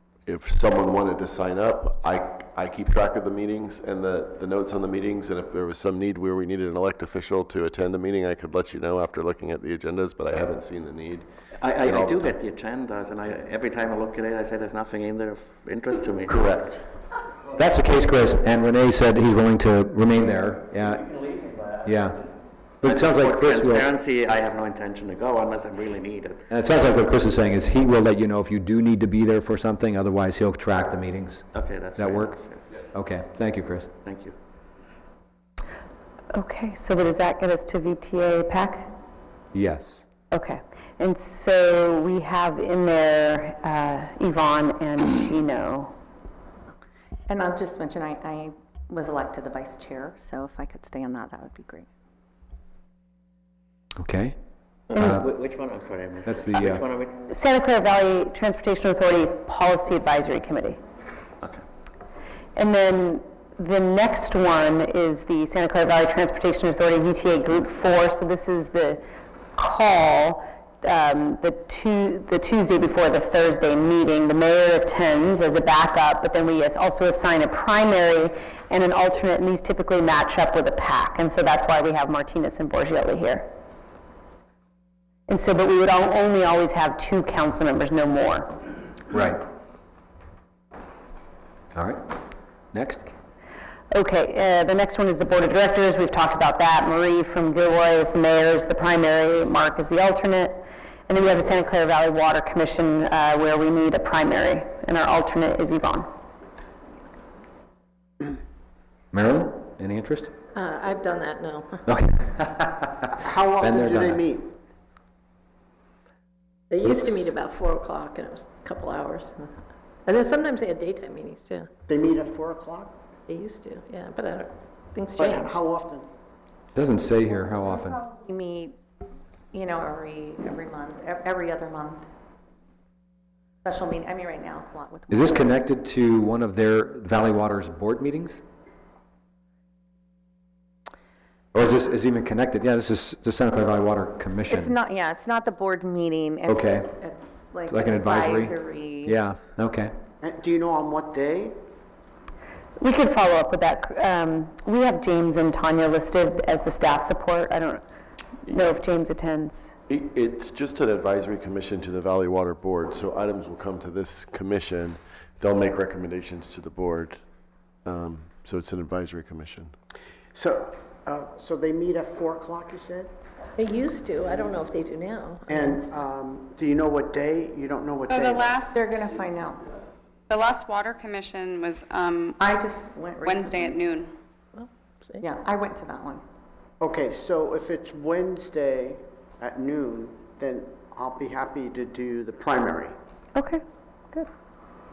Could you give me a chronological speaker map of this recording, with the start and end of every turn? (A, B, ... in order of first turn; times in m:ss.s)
0:00.2-0:12.4 A
0:11.6-0:16.4 B
0:16.3-0:16.8 A
0:17.5-0:21.1 C
0:21.0-0:21.6 B
0:21.8-0:22.2 C
0:22.8-0:23.9 C
0:22.8-0:26.5 B
0:26.5-0:32.4 C
0:31.5-0:32.6 B
0:32.9-0:33.9 C
0:34.0-0:34.3 B
0:36.3-0:38.9 D
0:39.5-0:40.0 C
0:40.3-0:45.9 D
0:47.3-0:51.9 E
0:54.0-0:54.4 C
0:54.9-0:57.2 B
0:54.9-0:55.3 C
0:56.2-0:56.8 C
0:57.3-1:00.8 D
1:02.5-1:23.5 D
1:25.3-1:28.5 D
1:29.1-1:29.4 C
1:31.7-1:32.0 C
1:32.7-1:33.1 C
1:33.9-1:46.1 D
1:49.1-1:50.3 C
1:50.5-1:51.8 F
1:51.8-1:53.1 C
1:53.2-1:54.5 G
1:53.6-1:54.2 C
1:56.7-1:59.5 F
2:00.0-2:01.7 F
2:01.9-2:03.0 G
2:03.3-2:05.6 F
2:05.1-2:06.1 G
2:06.7-2:08.0 C
2:08.1-2:08.8 E
2:09.5-2:12.0 E
2:13.6-2:15.5 E
2:15.1-2:18.4 C
2:21.5-2:24.8 C
2:24.5-2:29.2 E
2:26.5-2:26.9 C
2:27.7-2:29.9 C
2:30.2-2:31.6 G
2:32.8-2:37.8 D
2:38.5-2:39.7 D
2:39.9-2:47.2 A
2:47.8-2:49.7 A
2:50.3-2:53.1 G
2:53.6-2:55.8 F
2:55.5-2:58.6 G
2:58.1-2:59.0 H
2:58.7-2:59.6 E
3:00.3-3:02.4 H
3:02.4-3:03.8 E
3:03.2-3:04.1 H
3:04.6-3:05.2 F
3:05.2-3:06.2 E
3:06.8-3:13.0 G
3:13.3-3:14.3 D